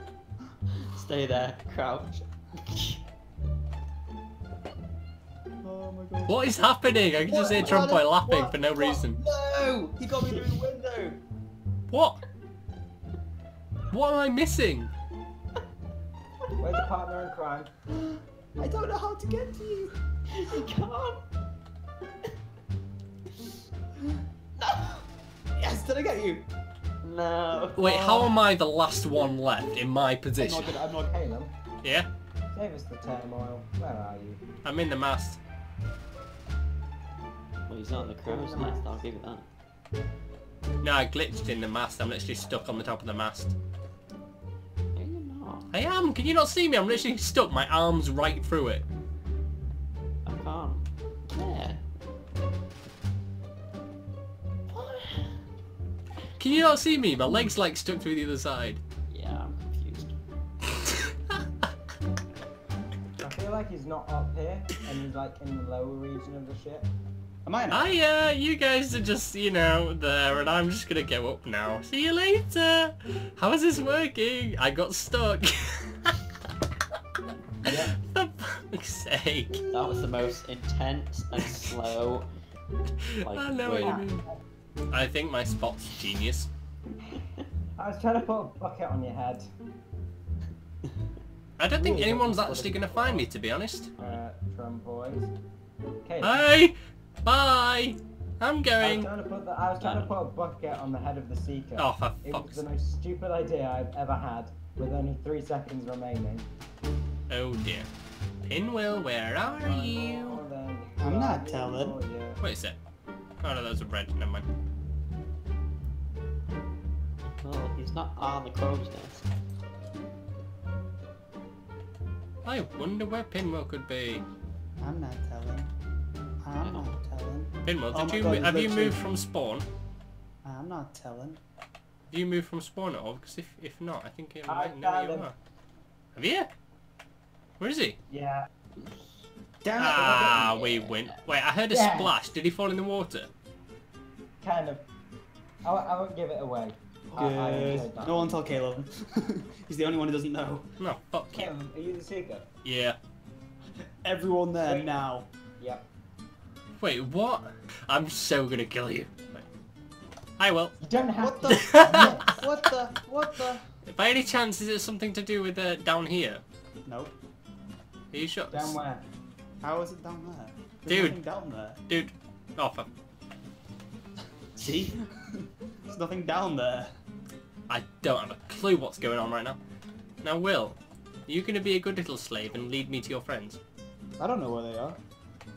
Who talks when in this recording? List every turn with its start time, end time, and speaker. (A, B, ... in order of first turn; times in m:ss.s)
0:00.8-0:03.0 A
0:05.6-0:06.5 B
0:06.3-0:09.2 C
0:07.2-0:11.2 B
0:11.9-0:12.2 C
0:13.9-0:14.9 C
0:16.6-0:17.7 D
0:18.6-0:20.0 B
0:20.3-0:21.2 A
0:24.6-0:25.0 A
0:25.6-0:26.5 B
0:27.0-0:27.8 A
0:27.8-0:30.6 C
0:27.8-0:28.4 B
0:30.4-0:31.1 B
0:30.6-0:31.5 D
0:31.8-0:32.1 C
0:32.5-0:34.4 D
0:34.6-0:35.4 C
0:37.7-0:39.5 A
0:37.9-0:39.1 D
0:40.8-0:43.5 C
0:44.9-0:45.7 A
0:45.7-0:48.8 C
0:50.2-0:51.8 A
0:54.7-0:55.4 A
0:56.4-0:58.8 C
0:59.1-1:00.1 A
1:00.8-1:01.4 C
1:03.2-1:06.9 D
1:07.4-1:08.0 B
1:07.7-1:16.1 C
1:17.6-1:18.0 D
1:18.0-1:19.6 C
1:19.7-1:22.3 A
1:23.1-1:24.2 C
1:23.2-1:24.0 A
1:23.8-1:24.3 D
1:24.9-1:26.5 C
1:27.8-1:29.4 D
1:31.6-1:33.9 C
1:31.7-1:33.3 B
1:34.0-1:35.3 D
1:36.0-1:36.4 D
1:36.2-1:39.1 C
1:38.8-1:46.5 D
1:39.8-1:40.1 A
1:41.8-1:42.6 C
1:47.3-1:47.9 C
1:48.4-1:50.4 C
1:49.6-1:52.4 D
1:51.0-1:52.0 B
1:52.4-1:52.8 C
1:53.4-1:54.5 C
1:57.4-1:59.3 A
2:02.4-2:04.2 C
2:04.8-2:05.7 B
2:06.4-2:09.1 B
2:06.6-2:06.9 A
2:07.6-2:09.7 C
2:10.4-2:11.4 B
2:12.1-2:15.3 C
2:14.5-2:15.3 D
2:16.1-2:16.5 C
2:17.6-2:18.0 C
2:18.1-2:18.4 D
2:18.8-2:19.2 A
2:19.6-2:20.6 B
2:19.8-2:23.3 C
2:20.1-2:21.2 A
2:21.7-2:22.2 D
2:24.4-2:24.8 D
2:25.6-2:28.5 D
2:27.1-2:30.7 B
2:30.8-2:31.5 C
2:31.3-2:32.5 D
2:32.6-2:33.0 C
2:34.0-2:35.3 B
2:34.6-2:34.9 D
2:35.6-2:35.9 D
2:36.8-2:39.4 C
2:40.4-2:40.8 C
2:40.8-2:42.3 D
2:41.2-2:43.7 B
2:41.6-2:42.1 C
2:43.8-2:46.4 C
2:46.8-2:47.1 B
2:48.1-2:48.7 C
2:48.5-2:49.0 D
2:49.6-2:51.8 B
2:50.8-2:51.2 C
2:51.9-2:52.9 C
2:54.6-2:56.9 B
2:57.7-2:59.6 C
3:00.2-3:03.6 C
3:04.2-3:05.0 B